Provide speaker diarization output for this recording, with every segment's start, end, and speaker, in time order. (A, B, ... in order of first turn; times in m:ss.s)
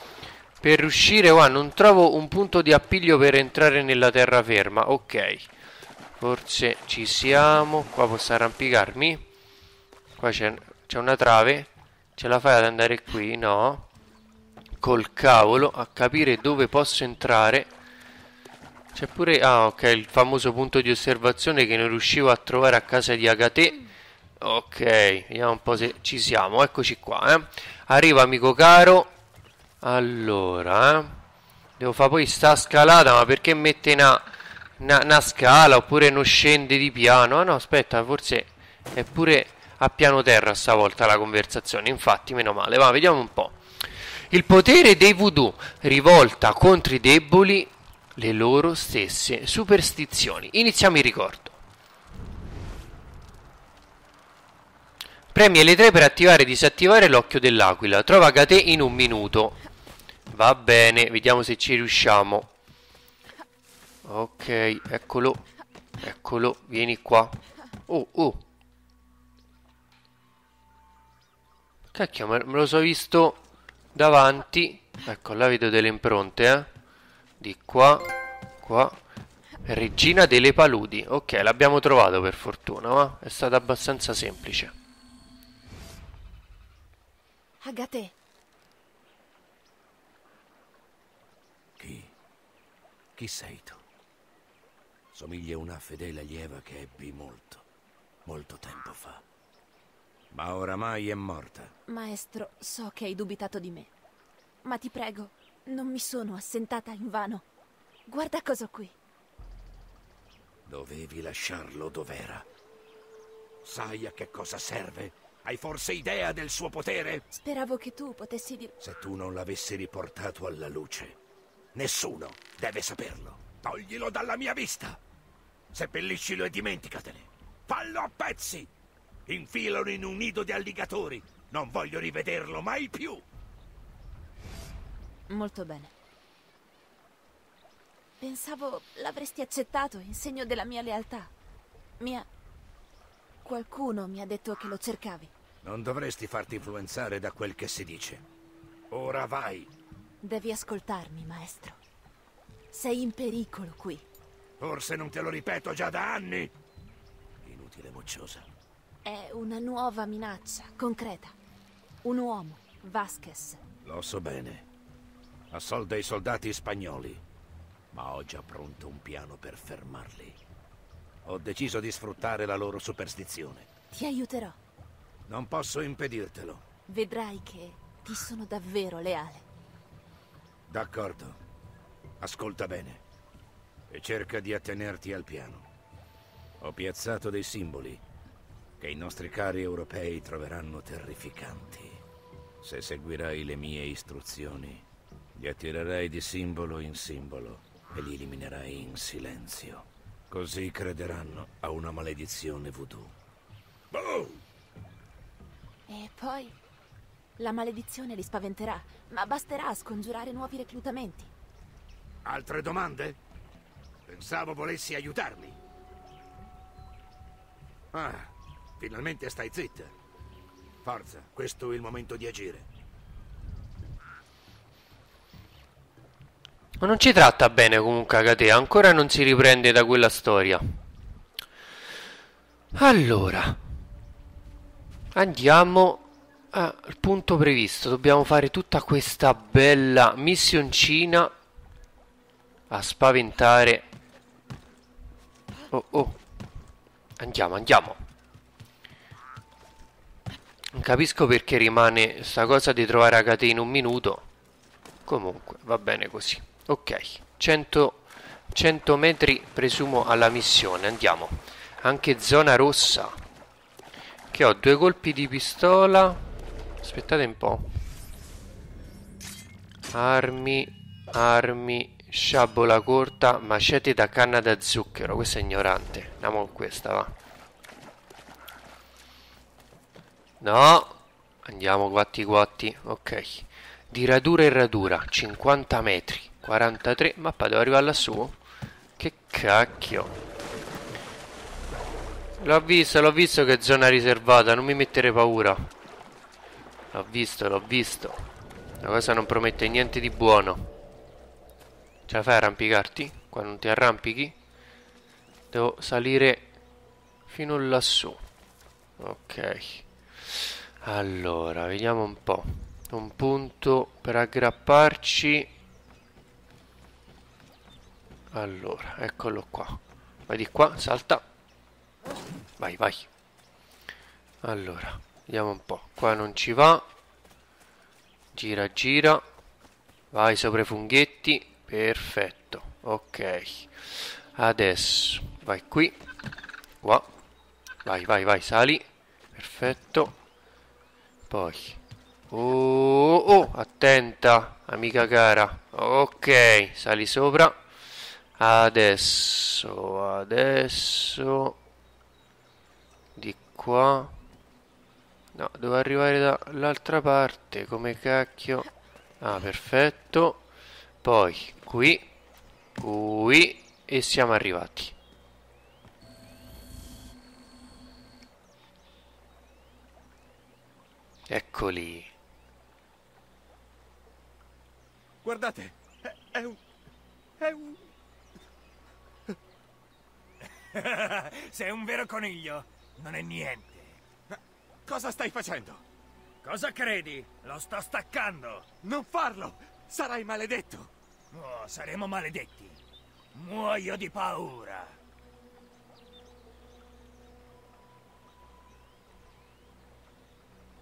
0:00.6-0:05.5 A
0:06.2-0:09.2 A
0:10.2-0:13.9 A
0:14.8-0:17.7 A
0:18.9-0:23.8 A
0:24.4-0:29.1 A
0:29.8-0:31.2 A
0:31.8-0:34.3 A
0:34.8-0:43.6 A
0:44.3-0:51.6 A
0:55.3-0:59.6 A
1:00.3-1:02.5 A
1:04.0-1:05.4 A
1:06.0-1:08.4 A
1:11.9-1:13.4 A
1:13.9-1:16.7 A
1:17.4-1:19.0 A
1:19.6-1:24.7 A
1:27.6-1:28.1 B
1:31.8-1:32.1 C
1:33.1-1:33.8 C
1:35.1-1:37.6 C
1:38.2-1:39.2 C
1:40.3-1:41.7 C
1:41.9-1:43.9 B
1:44.6-1:47.4 B
1:48.0-1:48.9 B
1:50.6-1:52.5 C
1:53.6-1:57.2 C
1:57.3-1:58.7 B
1:58.8-2:01.2 C
2:01.7-2:05.0 C
2:05.7-2:08.7 C
2:09.3-2:13.2 C
2:15.3-2:15.9 B
2:18.2-2:21.3 B
2:22.0-2:22.3 B
2:23.4-2:25.3 B
2:25.6-2:28.2 C
2:28.9-2:29.7 C
2:30.2-2:31.8 B
2:32.7-2:34.0 B
2:34.6-2:36.5 C
2:37.4-2:38.5 C
2:39.0-2:41.3 B
2:42.0-2:43.6 B
2:43.8-2:44.7 C
2:45.5-2:47.2 C
2:47.9-2:50.4 C
2:51.2-2:53.7 C
2:53.9-2:54.6 B
2:55.3-2:56.6 C
2:56.9-2:59.4 B
3:00.7-3:01.4 C
3:02.2-3:03.0 C
3:03.9-3:05.7 C
3:06.6-3:08.0 C
3:08.8-3:12.0 C
3:12.6-3:23.1 C
3:23.9-3:24.4 C
3:25.9-3:26.5 B
3:27.4-3:31.3 B
3:32.2-3:33.2 C
3:34.0-3:35.6 C
3:37.9-3:39.9 C
3:40.8-3:42.7 C
3:46.8-3:50.6 A
3:52.7-3:53.6 A
3:55.1-4:01.3 A
4:02.7-4:03.9 A
4:05.7-4:06.2 A
4:07.2-4:08.0 A
4:10.7-4:14.2 A
4:15.0-4:23.2 A
4:24.3-4:26.2 A
4:26.8-4:27.6 A
4:29.9-4:37.1 A
4:40.4-4:40.9 A
4:41.4-4:48.4 A
4:49.0-4:50.1 A
4:52.4-4:55.7 A
4:56.9-4:58.2 A
4:58.8-5:00.7 A
5:02.0-5:04.3 A
5:05.5-5:06.5 A
5:07.3-5:08.2 A
5:09.0-5:09.8 A
5:10.8-5:15.5 A
5:18.3-5:21.2 A
5:22.6-5:23.1 A
5:24.4-5:26.8 A
5:28.3-5:29.2 A
5:30.1-5:33.7 A
5:34.3-5:36.0 A
5:36.8-5:37.1 A
5:37.8-5:38.8 A
5:39.3-5:40.1 A
5:41.3-5:41.8 A
5:42.3-5:47.6 A
5:48.4-5:51.6 A
5:53.2-5:54.2 A
5:55.3-5:58.7 A
5:59.2-6:00.4 A
6:01.0-6:02.0 A
6:02.8-6:04.9 A
6:11.3-6:12.1 A
6:15.2-6:16.6 D
6:17.4-6:17.8 D
6:20.7-6:23.8 E
6:24.8-6:25.8 D
6:26.4-6:28.6 E
6:28.8-6:30.9 D
6:31.3-6:32.7 E